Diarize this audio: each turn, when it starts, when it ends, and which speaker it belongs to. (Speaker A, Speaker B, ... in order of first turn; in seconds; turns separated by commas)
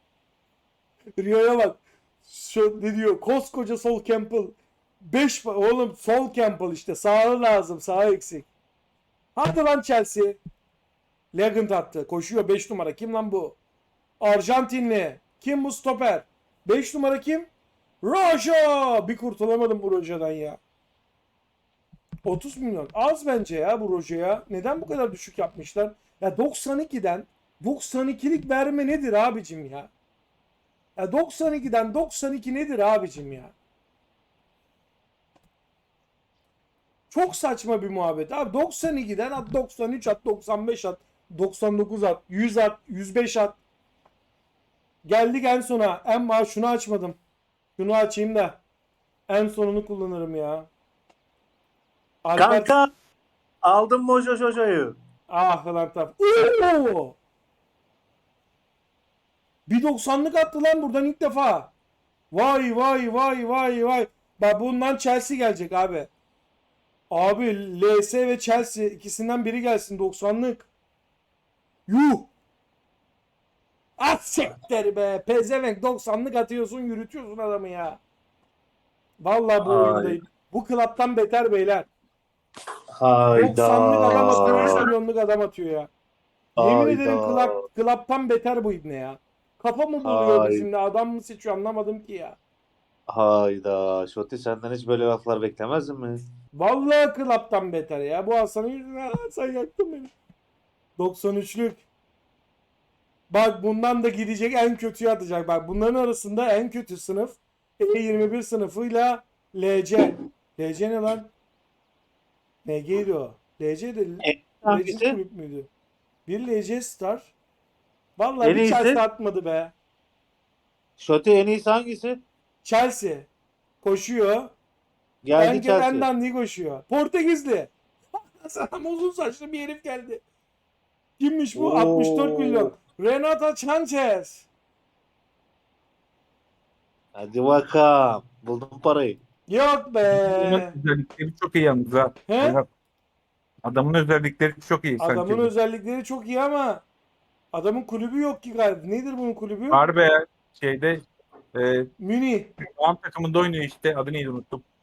Speaker A: 1.2-8.5, Speaker A: 9.3-10.4, Speaker A: 11.3-13.6, Speaker A: 14.2-17.5, Speaker A: 18.0-20.6, Speaker A: 22.2-29.9, Speaker A: 30.9-33.5, Speaker A: 37.1-43.6, Speaker A: 45.0-47.2, Speaker A: 47.8-48.6, Speaker A: 49.3-50.7, Speaker A: 52.2-52.8, Speaker B: 52.4-52.9, Speaker B: 53.6-55.0, Speaker A: 55.3-57.2, Speaker A: 59.7-61.7, Speaker A: 62.3-66.1, Speaker A: 67.1-70.7, Speaker A: 71.9-72.3, Speaker A: 74.0-78.0, Speaker A: 79.2-81.9, Speaker B: 79.6-80.2, Speaker B: 82.9-84.9, Speaker A: 83.3-85.9, Speaker B: 86.5-87.6, Speaker A: 86.6-92.4, Speaker B: 90.0-90.7, Speaker B: 93.1-96.2, Speaker A: 96.5-100.1, Speaker A: 101.0-101.8, Speaker A: 103.3-111.3, Speaker A: 112.6-115.7, Speaker B: 114.2-115.2, Speaker A: 116.2-117.3, Speaker A: 118.2-119.7, Speaker B: 118.4-119.0, Speaker B: 121.0-122.2, Speaker A: 122.6-123.3, Speaker A: 123.8-124.5, Speaker B: 125.2-126.1, Speaker A: 125.3-130.2, Speaker A: 131.2-134.5, Speaker B: 131.5-132.7, Speaker B: 137.1-139.2, Speaker A: 139.5-140.7, Speaker C: 140.1-142.7, Speaker A: 142.3-142.6, Speaker C: 143.6-145.5, Speaker A: 145.0-146.8, Speaker A: 147.5-149.8, Speaker C: 149.7-151.9, Speaker A: 152.0-152.5, Speaker C: 152.6-154.6